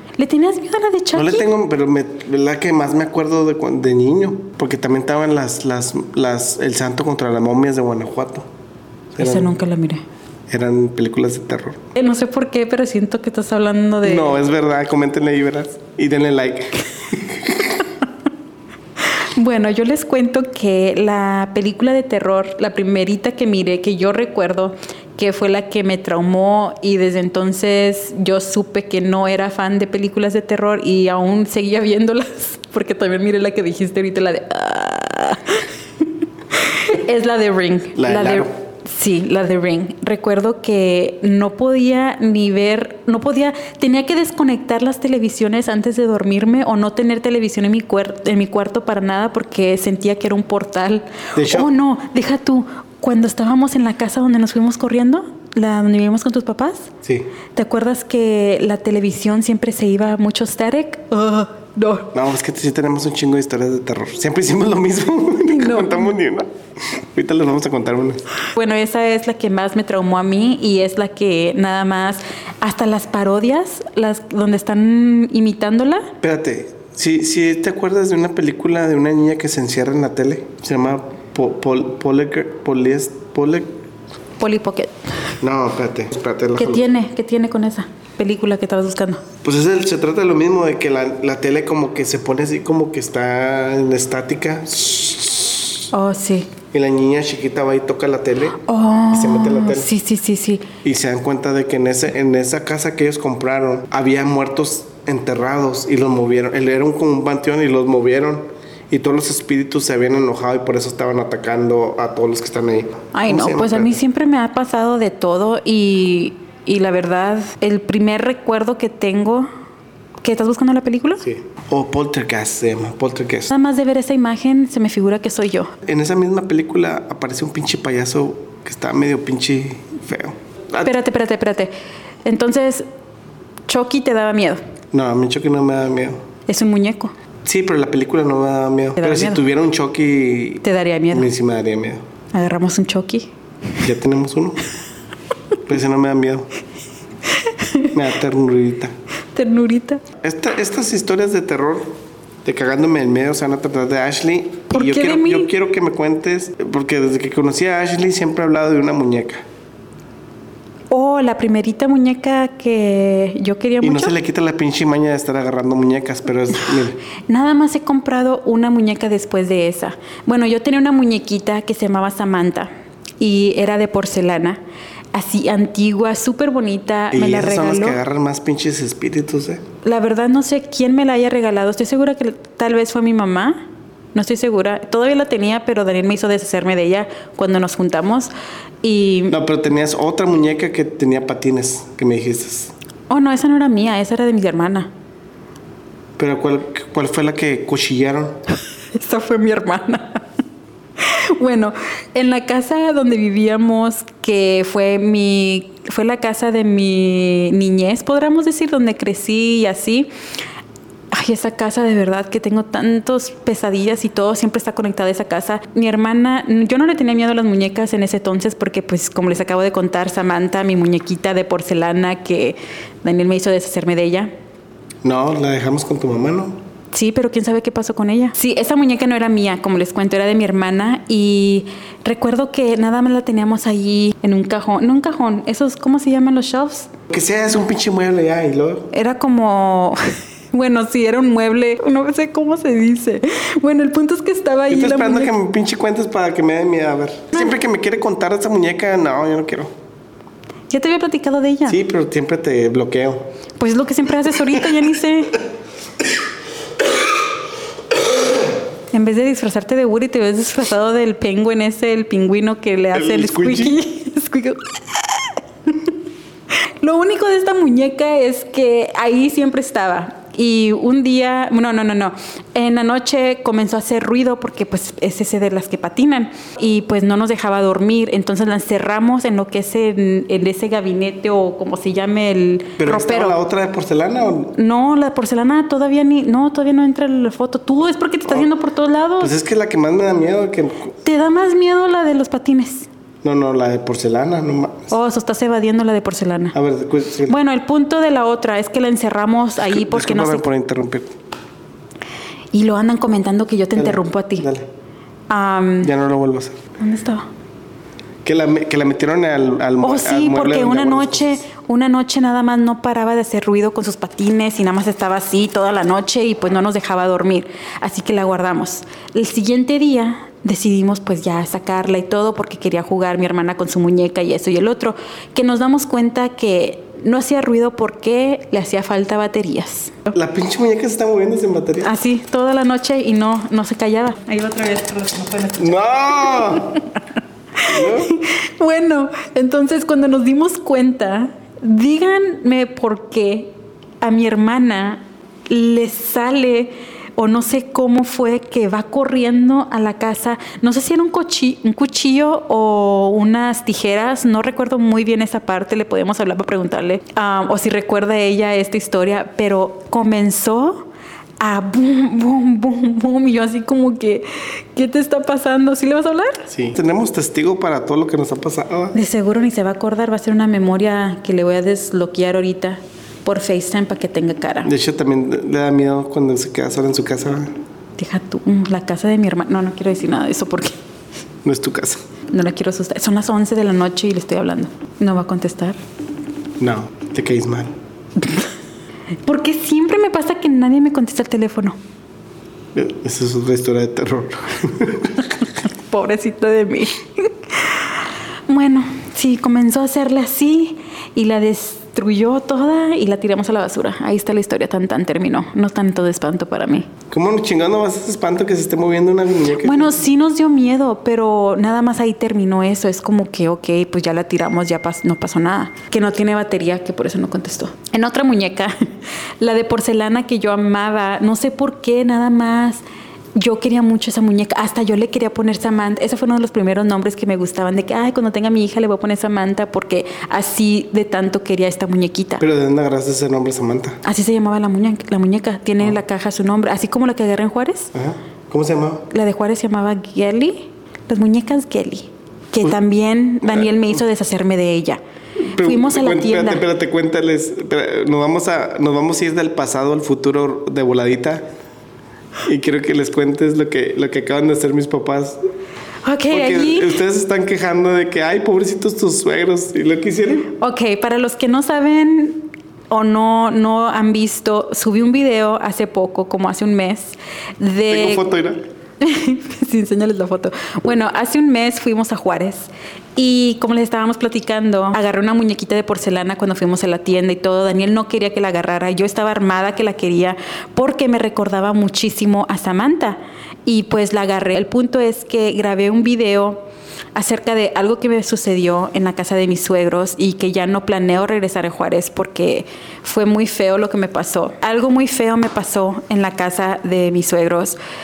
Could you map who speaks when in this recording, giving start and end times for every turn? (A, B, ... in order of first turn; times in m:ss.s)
0:00.2-0:01.5 A
0:01.1-0:08.5 B
0:09.2-0:09.6 B
0:09.2-0:10.0 A
0:10.5-0:11.8 B
0:12.0-0:14.4 A
0:14.0-0:17.8 B
0:19.3-0:56.9 A
0:38.0-0:38.5 B
0:51.4-0:51.7 B
0:57.6-1:02.2 A
1:02.1-1:08.2 B
1:05.5-1:06.1 A
1:08.6-1:16.1 A
1:16.2-1:23.7 B
1:24.4-1:24.9 A
1:25.4-1:26.8 B
1:26.6-1:29.2 A
1:29.4-1:35.8 B
1:35.9-1:36.5 A
1:36.7-1:39.9 B
1:38.6-1:40.7 A
1:40.8-1:54.0 B
1:53.1-1:59.5 A
2:00.2-2:01.2 A
2:01.2-2:03.5 B
2:03.5-2:05.7 A
2:05.8-2:10.9 B
2:10.8-2:11.7 A
2:12.2-2:12.9 A
2:13.7-2:14.6 A
2:14.9-2:16.2 B
2:16.5-2:17.1 A
2:17.4-2:22.0 B
2:19.0-2:19.4 A
2:20.6-2:21.3 A
2:22.3-2:23.3 A
2:23.8-2:24.6 B
2:25.7-2:26.5 B
2:27.3-2:27.9 A
2:27.9-2:29.0 B
2:29.4-2:30.0 A
2:30.2-2:39.4 B
2:34.7-2:35.5 A
2:40.9-2:44.1 A
2:43.8-2:47.0 B
2:47.3-2:54.6 A
2:55.1-2:58.0 A
2:57.1-2:59.6 B
2:59.8-3:08.3 A
3:08.8-3:09.4 A
3:09.3-3:12.7 B
3:13.1-3:14.9 A
3:16.2-3:18.4 B
3:19.0-3:20.2 A
3:21.0-3:30.1 A
3:31.1-3:44.3 A
3:45.0-3:46.6 B
3:46.9-3:56.9 A
3:57.1-3:58.9 B
3:58.9-4:00.0 A
4:00.5-4:05.3 A
4:04.7-4:09.7 B
4:10.7-4:11.8 A
4:11.7-4:13.2 B
4:13.6-4:15.4 A
4:18.9-4:25.9 A
4:22.9-4:23.8 B
4:26.8-4:43.4 A
4:42.8-4:44.5 B
4:44.5-4:49.3 A
4:49.2-4:51.0 B
4:51.0-4:52.9 A
4:53.2-4:54.9 B
4:54.9-4:56.6 A
4:56.5-4:57.4 B
4:57.3-5:00.5 A
4:59.6-5:01.2 B
5:02.5-5:04.5 A
5:03.8-5:04.7 B
5:05.3-5:05.9 A
5:05.8-5:06.6 B
5:06.8-5:07.3 A
5:08.2-5:11.4 B
5:09.8-5:30.1 A
5:30.1-5:31.9 B
5:31.8-5:36.8 A
5:35.6-5:36.8 B
5:37.6-6:00.9 A
5:37.6-5:38.1 B
6:01.4-6:06.5 A
6:06.5-6:09.0 B
6:08.9-6:14.7 A
6:14.6-6:17.5 B
6:18.0-6:20.8 A
6:21.4-6:22.0 B
6:22.3-6:25.8 A
6:26.6-6:27.7 B
6:29.3-6:31.8 A
6:32.7-6:35.3 B
6:35.6-6:38.0 A
6:38.5-6:46.9 A
6:47.1-6:50.0 B
6:49.6-6:58.9 A
6:59.4-7:02.8 A
7:03.4-7:12.4 A
7:12.4-7:14.0 B
7:14.0-7:17.9 A
7:17.9-7:19.1 B
7:19.1-7:25.0 A
7:25.4-7:31.5 B
7:25.6-7:26.6 A
7:32.4-7:35.4 B
7:36.0-7:37.0 A
7:36.3-7:40.5 B
7:40.5-7:48.3 A
7:47.9-7:48.6 B
7:49.0-8:06.6 A
8:07.2-8:17.8 A